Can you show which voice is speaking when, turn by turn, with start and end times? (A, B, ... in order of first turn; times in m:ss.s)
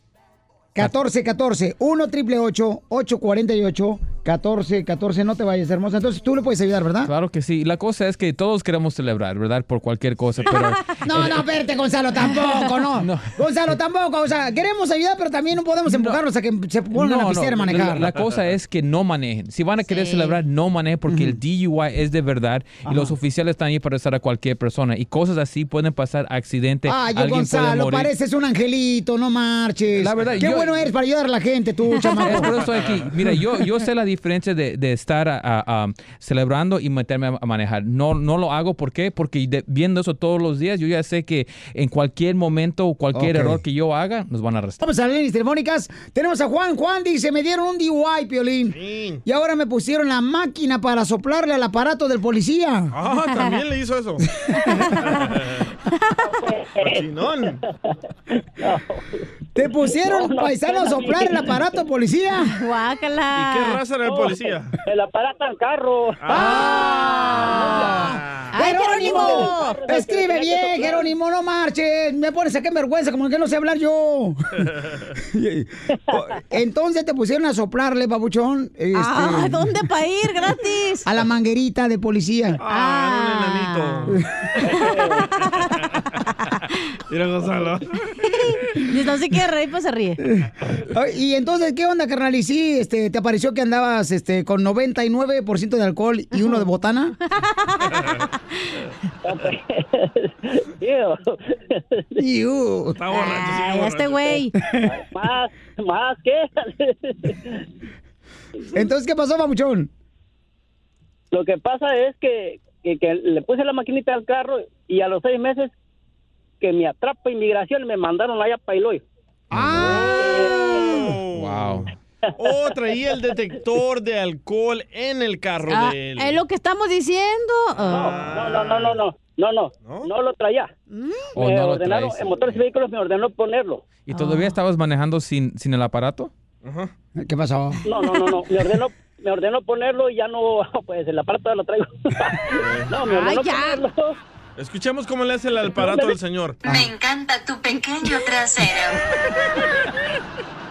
0:00.7-0:07.1 A
0:07.0-0:11.5 B
0:11.0-0:18.1 A
0:13.0-0:13.4 B
0:15.8-0:16.2 B
0:16.9-0:28.1 B
0:19.8-0:20.4 C
0:21.1-0:21.4 A
0:22.8-0:23.1 A
0:26.8-0:32.6 A
0:30.0-0:30.9 B
0:32.2-0:44.8 B
0:43.1-0:43.6 A
0:44.8-0:52.9 A
0:48.7-0:49.2 D
0:52.9-0:54.2 D
0:54.7-0:55.1 C
0:55.0-0:55.7 D
0:55.9-0:56.3 C
0:56.4-0:57.0 E
0:56.8-0:57.6 D
0:58.6-0:59.2 E
0:59.6-1:02.5 A
0:59.8-1:01.6 E
1:02.5-1:03.8 C
1:03.3-1:04.7 D
1:04.0-1:06.5 E
1:06.2-1:06.6 D
1:06.3-1:14.4 A
1:06.3-1:08.0 C
1:07.4-1:08.0 E
1:08.0-1:08.5 D
1:08.5-1:09.8 C
1:08.7-1:11.1 E
1:15.2-1:19.7 A
1:18.9-1:21.0 C
1:21.0-1:22.6 A
1:22.6-1:24.2 D
1:22.7-1:24.1 C
1:24.6-1:25.8 C
1:24.6-1:25.2 E
1:27.1-1:28.0 D
1:28.3-1:30.2 C
1:30.2-1:37.1 A
1:37.4-1:38.2 C
1:39.2-1:42.0 E
1:42.2-1:43.0 A
1:42.9-1:44.4 D
1:43.1-1:44.5 C
1:45.1-1:47.6 E
1:48.7-1:49.9 A
1:51.3-1:55.7 E
1:56.6-1:59.0 E
1:59.5-2:00.5 A
1:59.5-2:00.0 B
1:59.8-2:06.4 D
2:00.2-2:01.0 E
2:01.3-2:01.9 B
2:05.7-2:08.2 C
2:07.8-2:09.0 D
2:07.9-2:10.7 E
2:09.8-2:10.1 D
2:10.9-2:11.3 C
2:11.4-2:12.6 B
2:11.4-2:13.8 E
2:14.0-2:16.3 B
2:14.1-2:14.6 C
2:16.6-2:16.9 D
2:17.2-2:17.8 A
2:17.8-2:24.2 E
2:22.6-2:23.0 D
2:23.0-2:23.8 C
2:24.6-2:26.6 D
2:25.7-2:26.1 E
2:26.7-2:29.0 F